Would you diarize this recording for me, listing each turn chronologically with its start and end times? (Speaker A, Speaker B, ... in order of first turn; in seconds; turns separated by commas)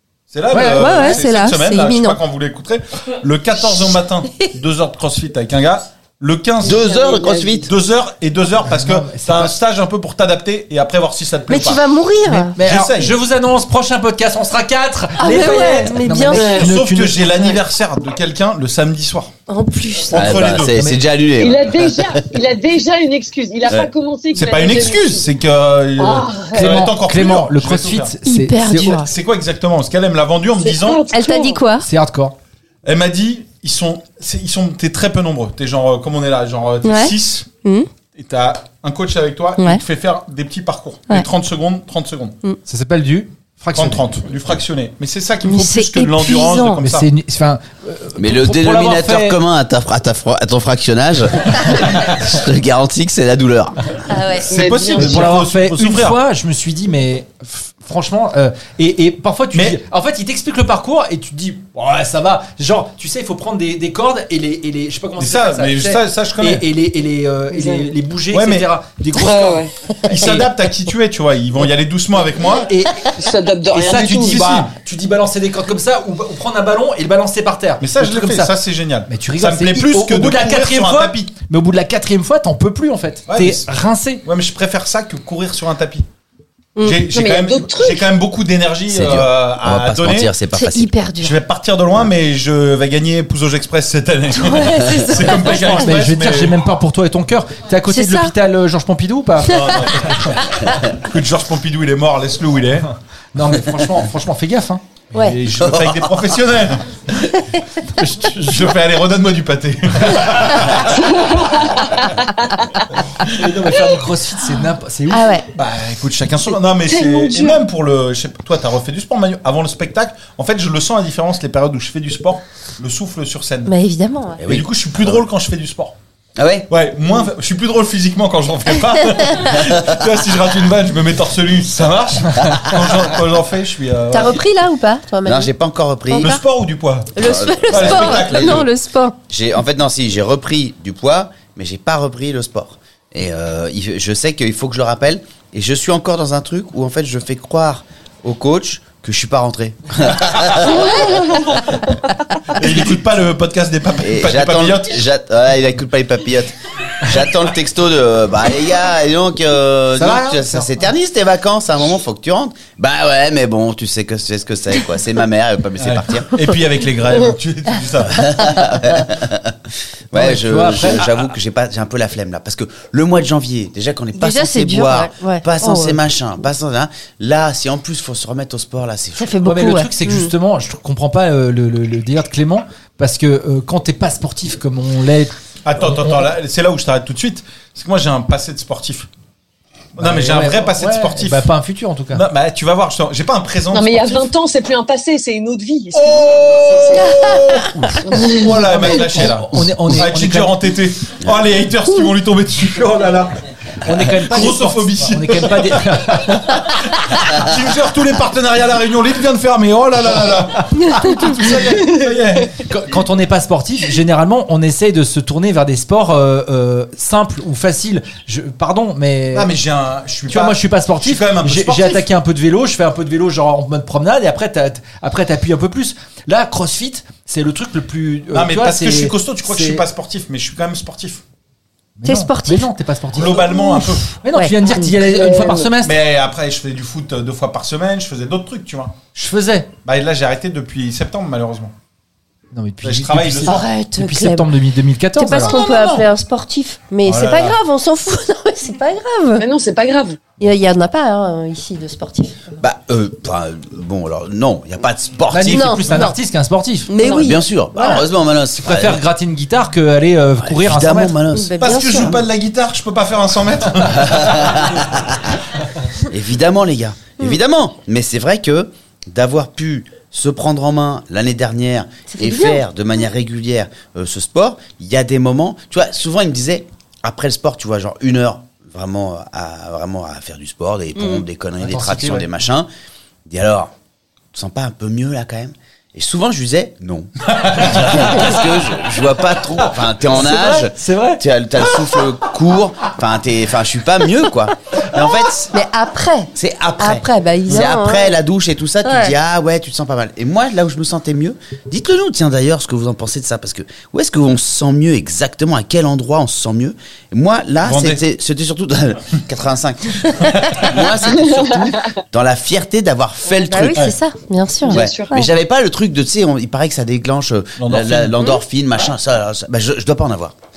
Speaker A: 0.3-6.8, Speaker B: 0.5-1.2, Speaker C: 0.6-2.2, Speaker D: 6.6-7.7, Speaker E: 6.6-7.7, Speaker A: 7.7-11.8, Speaker B: 8.6-9.6, Speaker C: 11.5-12.6, Speaker B: 12.3-17.6, Speaker A: 12.6-13.1, Speaker C: 15.2-16.6, Speaker E: 16.3-16.7, Speaker A: 16.5-19.3, Speaker C: 19.5-20.4, Speaker A: 20.1-20.8, Speaker D: 20.1-22.2, Speaker E: 21.4-25.2, Speaker A: 24.3-28.1, Speaker E: 26.0-26.9, Speaker B: 26.6-29.0, Speaker C: 28.2-29.1, Speaker A: 28.8-31.1, Speaker E: 30.6-31.6, Speaker C: 31.1-31.9, Speaker B: 31.8-32.3, Speaker A: 32.8-37.5, Speaker C: 36.8-37.9, Speaker A: 38.1-42.4, Speaker B: 42.6-44.0, Speaker A: 43.7-47.1, Speaker C: 45.4-46.8, Speaker B: 46.8-49.4, Speaker D: 48.2-54.0, Speaker C: 54.1-54.5, Speaker A: 54.5-56.2, Speaker E: 54.5-55.4, Speaker B: 55.0-70.4, Speaker A: 59.5-59.8, Speaker A: 65.2-66.7, Speaker E: 67.5-67.9, Speaker A: 68.3-68.7, Speaker E: 69.2-69.7, Speaker A: 70.1-72.7, Speaker B: 72.7-73.2, Speaker E: 73.2-74.4, Speaker B: 73.7-78.5, Speaker A: 74.1-74.7, Speaker A: 77.8-81.3, Speaker B: 79.1-84.2, Speaker A: 83.3-83.6, Speaker A: 84.2-86.0, Speaker A: 86.8-90.3, Speaker E: 87.1-88.1, Speaker D: 88.9-90.9, Speaker C: 90.5-91.4, Speaker A: 91.2-96.6, Speaker C: 94.3-95.9, Speaker B: 95.5-100.3, Speaker C: 97.9-98.3, Speaker A: 99.4-102.9, Speaker B: 103.3-104.8, Speaker C: 105.1-105.4, Speaker A: 105.2-107.3, Speaker D: 105.5-106.1, Speaker B: 108.0-108.7, Speaker A: 108.2-111.3, Speaker E: 110.9-111.9, Speaker B: 113.2-115.3, Speaker C: 115.1-115.5, Speaker A: 115.5-123.7, Speaker E: 116.9-117.6, Speaker C: 123.7-124.4, Speaker D: 124.4-125.2, Speaker A: 124.4-125.9, Speaker D: 126.3-126.7, Speaker A: 126.7-134.4, Speaker C: 134.1-135.5, Speaker D: 135.2-136.3, Speaker C: 136.1-136.4, Speaker A: 136.2-137.2, Speaker C: 137.2-139.2, Speaker D: 137.2-138.7, Speaker A: 137.7-138.7, Speaker D: 139.3-151.1, Speaker A: 152.5-154.9, Speaker D: 154.0-166.3, Speaker B: 160.0-160.7, Speaker A: 165.8-168.6, Speaker D: 168.1-169.6, Speaker D: 170.1-179.3, Speaker B: 170.1-171.0, Speaker C: 174.2-176.0, Speaker C: 179.2-180.3, Speaker B: 179.4-186.2, Speaker A: 185.6-189.1, Speaker A: 190.0-191.5, Speaker B: 190.0-192.2, Speaker A: 192.1-194.3, Speaker E: 193.7-197.1, Speaker A: 195.9-203.4, Speaker E: 198.0-198.6, Speaker B: 198.7-200.5, Speaker B: 203.8-206.6, Speaker A: 203.9-212.6, Speaker B: 212.7-219.5, Speaker A: 219.3-222.1, Speaker B: 220.3-229.8, Speaker A: 228.3-231.2, Speaker B: 232.0-236.0, Speaker C: 232.0-232.7, Speaker A: 233.1-234.1, Speaker C: 233.6-234.9, Speaker E: 234.6-235.7, Speaker A: 235.8-239.0, Speaker B: 239.1-239.7, Speaker A: 239.8-241.7, Speaker B: 242.5-245.6, Speaker A: 242.8-243.7, Speaker C: 243.4-244.5, Speaker C: 245.2-249.4, Speaker A: 245.5-245.9, Speaker A: 247.0-247.6, Speaker E: 249.4-250.2, Speaker C: 250.4-252.6, Speaker D: 252.6-255.9, Speaker B: 255.3-256.9, Speaker C: 255.5-256.2, Speaker C: 256.9-258.0, Speaker D: 257.0-259.0, Speaker B: 258.6-261.1, Speaker D: 260.4-262.2, Speaker C: 261.3-262.1, Speaker A: 261.6-264.7, Speaker D: 263.9-265.2, Speaker D: 266.1-282.7, Speaker C: 272.1-272.6, Speaker C: 281.0-281.2, Speaker B: 281.6-282.3, Speaker D: 283.2-283.7, Speaker D: 284.3-295.5, Speaker A: 287.4-288.1, Speaker B: 290.1-291.2, Speaker C: 295.5-298.1, Speaker D: 296.4-313.9, Speaker C: 298.8-299.1, Speaker A: 307.6-308.0, Speaker A: 310.3-310.6, Speaker C: 313.4-315.2, Speaker E: 314.6-315.1, Speaker D: 314.7-320.3, Speaker A: 317.6-318.1